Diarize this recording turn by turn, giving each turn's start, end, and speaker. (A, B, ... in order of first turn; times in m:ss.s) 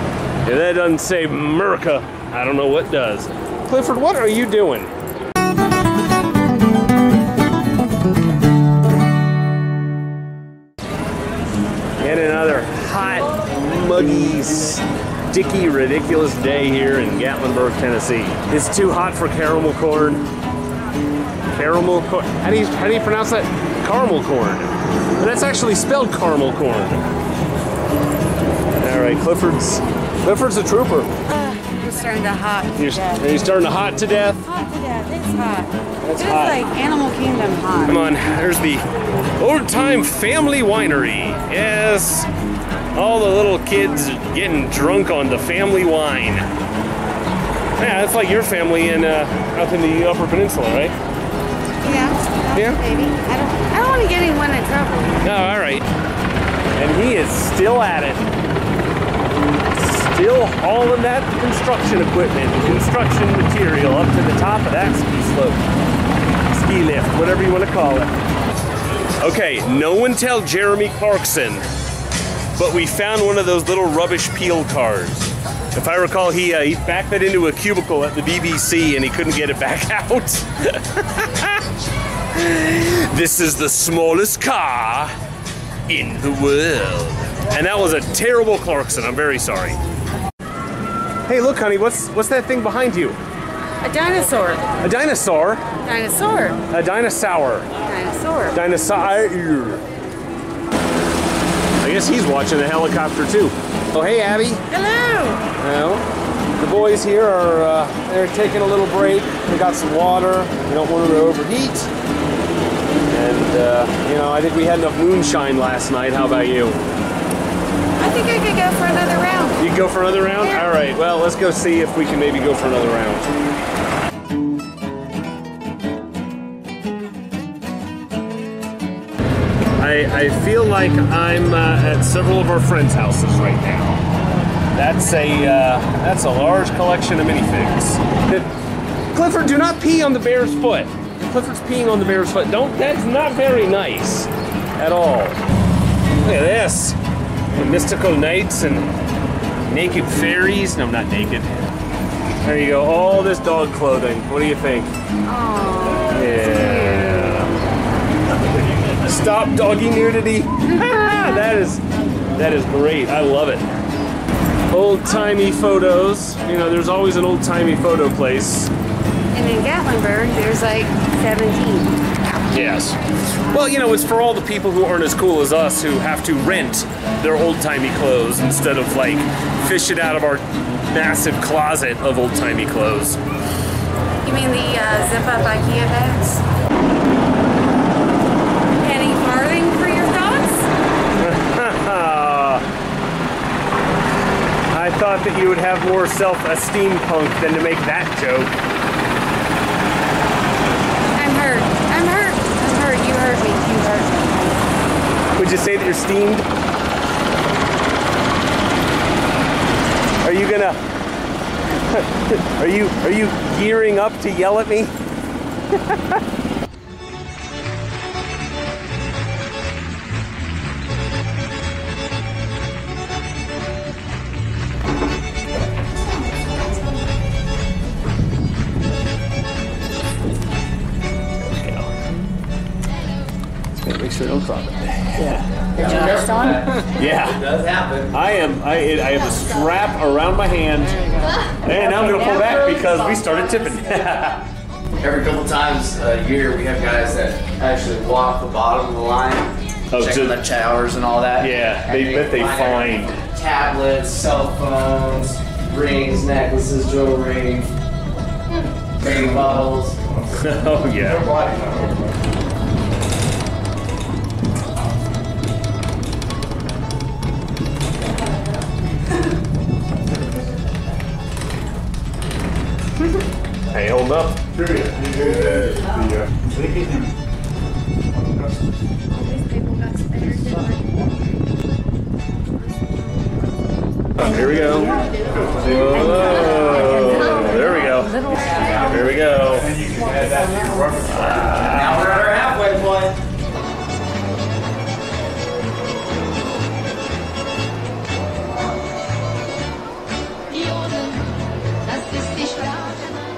0:00.4-0:04.9 A
0:12.0-0:20.2 A
0:21.5-0:27.0 A
0:28.8-0:31.1 A
0:31.3-0:33.2 B
0:32.8-0:34.5 A
0:34.4-0:38.1 B
0:36.0-0:36.6 A
0:37.8-0:38.8 A
0:39.4-0:42.3 A
0:42.9-0:46.5 A
0:47.8-0:51.0 A
0:51.8-0:55.2 B
0:52.5-0:52.8 A
0:55.2-0:55.9 A
0:56.8-0:58.3 A
0:59.7-1:05.6 A
1:06.5-1:08.1 A
1:09.2-1:11.6 A
1:12.5-1:21.6 A
1:22.3-1:25.1 A
1:25.9-1:29.8 A
1:31.2-1:33.2 A
1:33.8-1:34.7 B
1:34.7-1:35.7 A
1:35.8-1:36.6 B
1:36.7-1:37.7 A
1:37.8-1:38.6 B
1:38.5-1:39.8 A
1:41.8-1:44.6 A
1:44.7-1:45.4 B
1:45.6-1:46.0 A
1:46.6-1:51.9 A
1:53.1-1:56.8 A
1:58.0-1:59.7 B
1:59.6-2:03.3 A
2:00.2-2:00.7 B
2:09.8-2:14.0 A
2:14.7-2:18.5 A
2:19.1-2:25.4 A
2:26.2-2:27.0 A
2:27.5-2:28.9 A
2:29.7-2:31.7 A
2:32.4-2:34.9 A
2:35.2-2:37.5 B
2:36.1-2:37.6 A
2:38.7-2:41.8 A
2:40.7-2:41.0 B
2:42.4-2:43.7 A
2:44.7-2:48.7 A
2:49.3-2:52.9 B
2:52.5-3:03.2 A
3:04.2-3:06.4 B
3:08.8-3:10.7 B
3:11.2-3:12.6 A
3:14.7-3:18.5 A
3:21.1-3:24.7 B
3:25.3-3:26.5 A
3:30.2-3:30.8 A
3:31.7-3:34.9 A
3:35.7-3:36.2 A
3:51.4-3:51.9 A
3:53.7-3:55.4 A
3:55.2-3:56.6 B
3:55.8-3:58.1 C
3:56.7-3:57.5 A
3:58.1-4:04.4 A
4:02.0-4:02.5 B
4:05.0-4:17.7 C
4:09.9-4:10.4 A
4:11.4-4:13.2 A
4:19.0-4:20.0 C
4:20.3-4:21.4 A
4:21.3-4:21.7 C
4:33.7-4:34.9 A
4:39.2-4:40.9 B
4:44.2-4:49.9 A
4:48.4-4:48.7 B
4:50.0-4:51.0 B
4:51.0-4:52.2 A
4:51.5-4:53.2 C
5:02.4-5:02.7 B